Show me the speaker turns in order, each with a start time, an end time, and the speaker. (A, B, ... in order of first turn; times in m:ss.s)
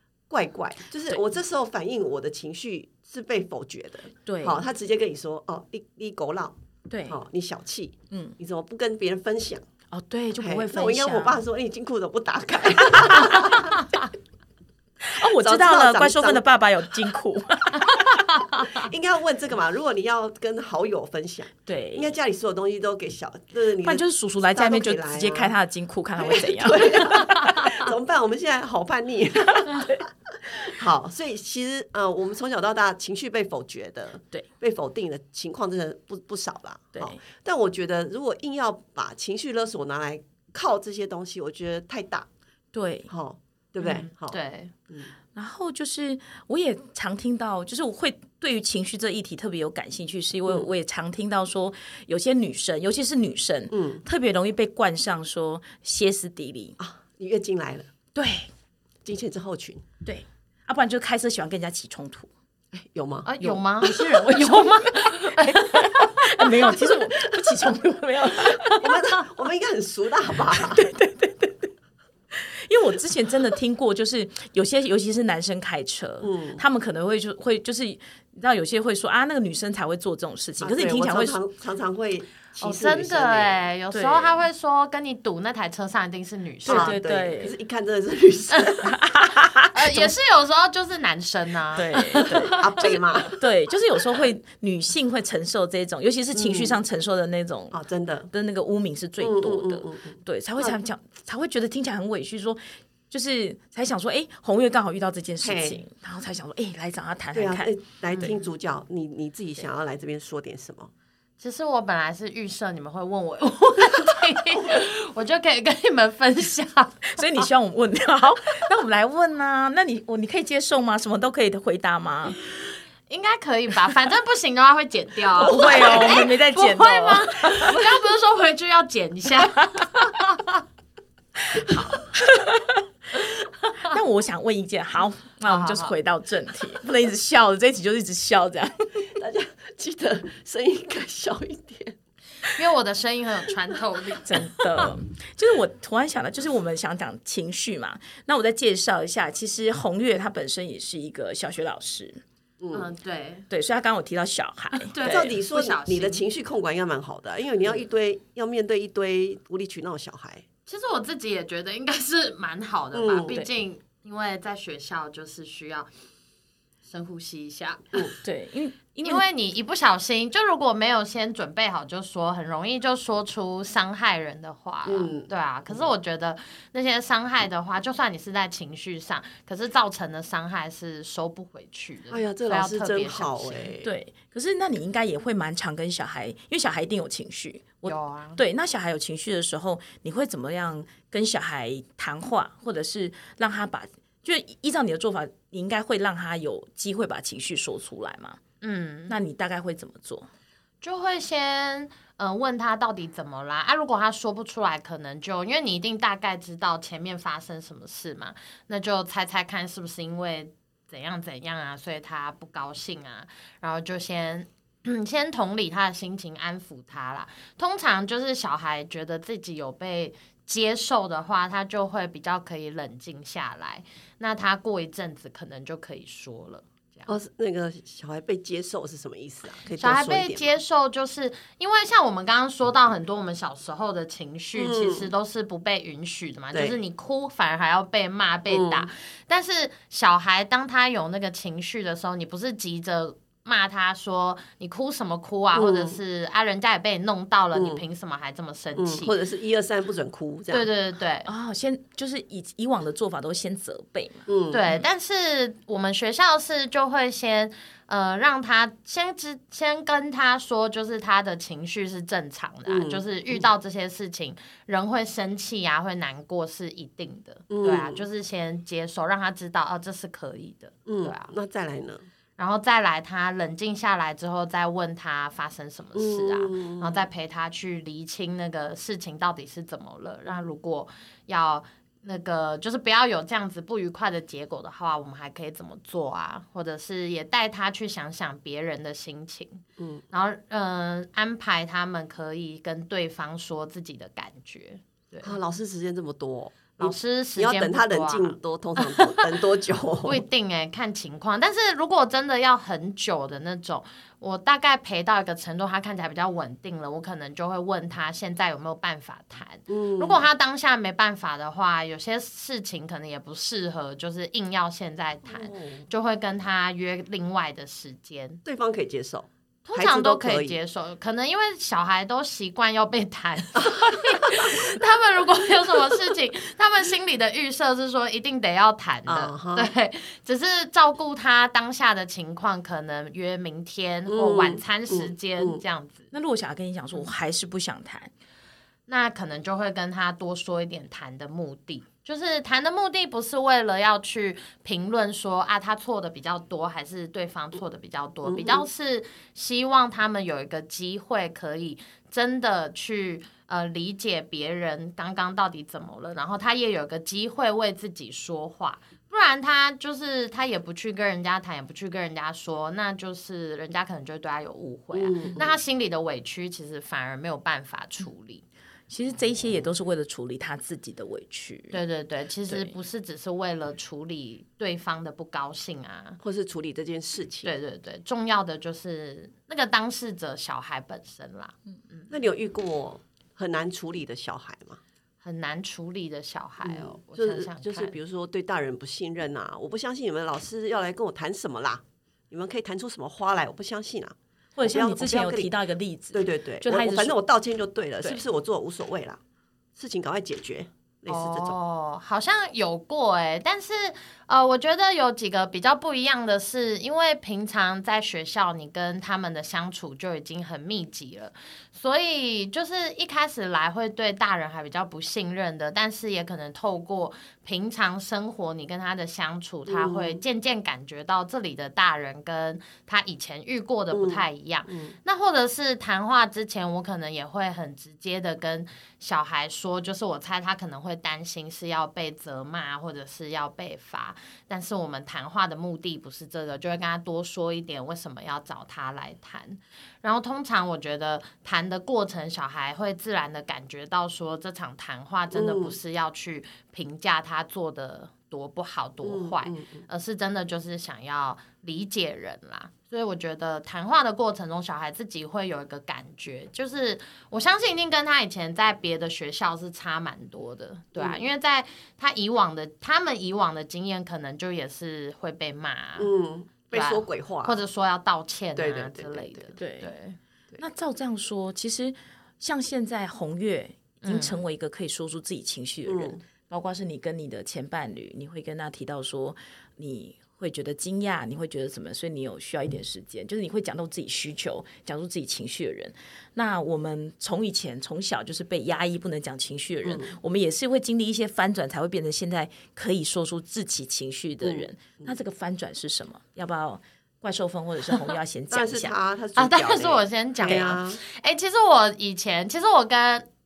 0:00.3-0:06.6 A
0:04.2-0:04.6 B
0:06.9-0:07.2 B
0:07.1-0:09.6 A
0:08.1-0:08.4 B
0:09.9-0:11.4 B
0:10.4-0:13.8 A
0:15.0-0:18.4 B
0:15.2-0:16.4 A
0:18.4-0:18.7 C
0:18.6-0:25.5 A
0:21.7-0:22.2 B
0:23.8-0:27.9 B
0:26.2-0:42.3 A
0:29.5-0:30.0 B
0:42.7-0:43.1 B
0:43.1-0:44.4 A
0:43.8-0:44.7 C
0:45.4-0:56.8 B
0:53.7-0:54.0 A
0:56.8-0:57.9 A
0:58.1-0:58.5 B
0:59.0-0:59.8 A
1:00.0-1:02.3 B
1:02.7-1:03.3 A
1:03.2-1:06.7 C
1:03.4-1:09.0 B
1:08.4-1:10.9 A
1:10.5-1:11.7 B
1:12.3-1:21.4 B
1:16.2-1:16.6 A
1:20.6-1:23.6 A
1:22.6-1:27.0 C
1:23.9-1:24.4 B
1:26.6-1:29.0 A
1:26.6-1:27.5 B
1:28.8-1:30.0 B
1:29.7-1:33.2 C
1:31.8-1:37.8 B
1:32.2-1:33.4 A
1:36.3-1:36.8 A
1:37.7-1:38.3 A
1:38.3-1:47.7 B
1:39.2-1:40.8 A
1:45.4-1:45.8 A
1:47.3-1:50.9 A
1:51.4-1:57.2 C
1:57.1-2:02.4 B
2:03.1-2:10.6 C
2:05.4-2:07.8 B
2:12.2-2:12.8 B
2:13.8-2:19.1 B
2:15.4-2:15.9 C
2:19.1-2:22.0 A
2:22.4-2:24.9 C
2:24.2-2:32.2 B
2:32.6-2:32.9 A
2:32.7-2:33.5 C
2:33.5-2:35.4 B
2:34.8-2:36.2 C
2:35.0-2:40.4 A
2:40.7-2:45.9 C
2:42.9-2:43.4 A
2:46.8-2:48.1 C
2:48.2-2:49.2 B
2:49.0-3:03.7 C
2:54.9-2:55.9 A
3:02.1-3:03.9 A
3:03.8-3:18.4 B
3:07.8-3:08.4 C
3:18.6-3:19.1 C
3:19.1-3:20.3 B
3:20.8-3:47.1 C
3:47.1-3:50.5 A
3:49.8-4:09.1 C
3:54.6-3:55.1 A
3:58.5-3:58.9 A
4:05.5-4:06.0 A
4:07.5-4:07.8 A
4:08.8-4:10.7 A
4:10.5-4:11.3 C
4:11.2-4:14.8 B
4:14.3-4:14.6 A
4:14.5-4:31.3 C
4:22.7-4:23.4 A
4:27.5-4:28.0 A
4:30.9-4:32.0 A
4:32.4-4:55.4 C
4:36.0-4:37.0 A
4:49.8-4:50.0 A
4:55.2-5:00.2 A
4:56.8-4:59.4 C
5:00.0-5:18.4 C
5:09.7-5:10.2 A
5:15.3-5:15.9 A
5:18.4-5:20.6 A
5:19.6-5:36.1 C
5:29.1-5:29.7 A
5:34.1-5:35.6 A
5:36.1-5:38.1 B
5:38.9-6:08.4 C
5:48.2-5:48.7 A
6:04.9-6:05.6 A
6:08.9-6:11.8 B
6:11.7-6:16.2 C
6:16.2-6:17.5 A
6:17.4-6:22.1 C
6:22.1-6:24.8 A
6:25.2-6:28.0 C
6:26.6-6:35.5 A
6:34.6-6:37.2 B
6:36.1-6:39.2 A
6:39.8-6:41.6 A
6:41.1-7:46.1 C
6:59.7-7:00.2 A
7:03.9-7:05.0 A
7:25.3-7:25.8 A
7:29.0-7:29.8 A
7:41.0-7:41.2 A
7:46.0-7:47.6 A
7:46.7-7:50.2 C
7:48.6-7:49.5 A
7:49.6-7:49.9 B
7:50.6-8:18.9 B
7:54.0-7:54.4 C
7:55.8-7:56.2 A
8:09.8-8:10.2 A
8:14.4-8:15.1 A
8:18.5-8:21.0 A
8:19.4-8:23.3 C